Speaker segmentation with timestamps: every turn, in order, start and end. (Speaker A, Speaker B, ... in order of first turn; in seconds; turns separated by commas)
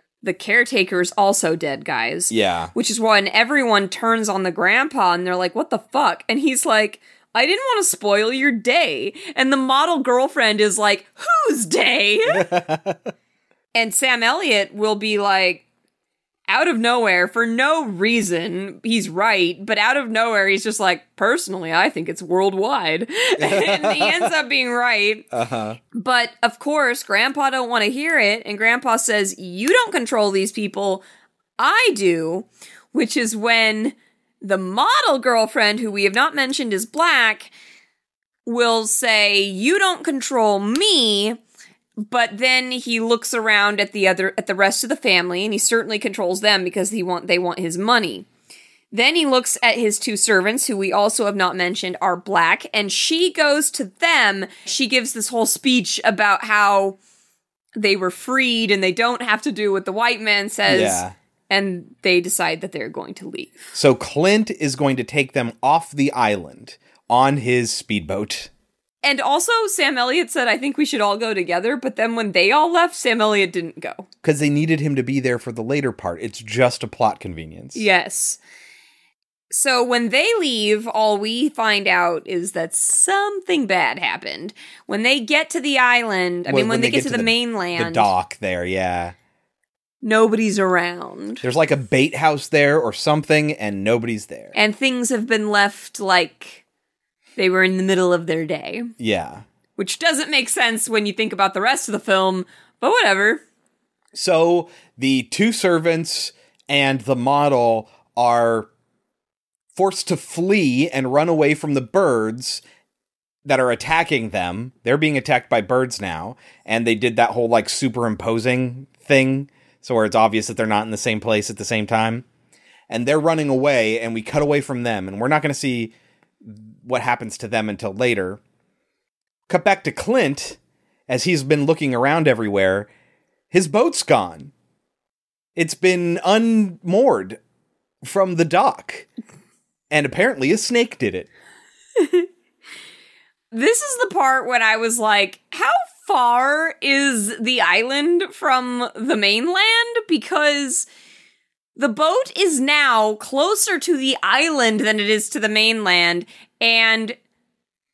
Speaker A: 0.2-12.4, Speaker B: 2.3-2.7, Speaker B: 12.3-13.1, Speaker A: 13.7-15.6, Speaker A: 16.5-25.3, Speaker B: 23.4-24.3, Speaker B: 25.3-25.8, Speaker A: 25.9-31.0, Speaker A: 31.6-37.5, Speaker A: 38.5-41.4, Speaker A: 42.0-48.3, Speaker A: 48.9-57.0, Speaker A: 57.8-63.7, Speaker B: 60.6-61.1, Speaker B: 63.7-68.5, Speaker A: 69.0-74.1, Speaker B: 74.2-77.9, Speaker A: 77.7-78.4, Speaker A: 79.5-88.1, Speaker B: 86.5-89.1, Speaker A: 90.0-91.4, Speaker B: 91.4-94.5, Speaker A: 94.5-96.6, Speaker A: 97.4-98.9, Speaker B: 99.0-99.4, Speaker A: 99.8-103.4, Speaker B: 104.1-108.7, Speaker B: 109.7-112.6, Speaker B: 113.4-122.2, Speaker B: 122.9-128.4, Speaker B: 129.5-132.9, Speaker B: 133.5-134.5, Speaker B: 135.6-137.4, Speaker B: 138.0-139.1, Speaker B: 139.9-141.3, Speaker A: 142.0-142.2, Speaker A: 143.5-150.9, Speaker A: 151.8-157.2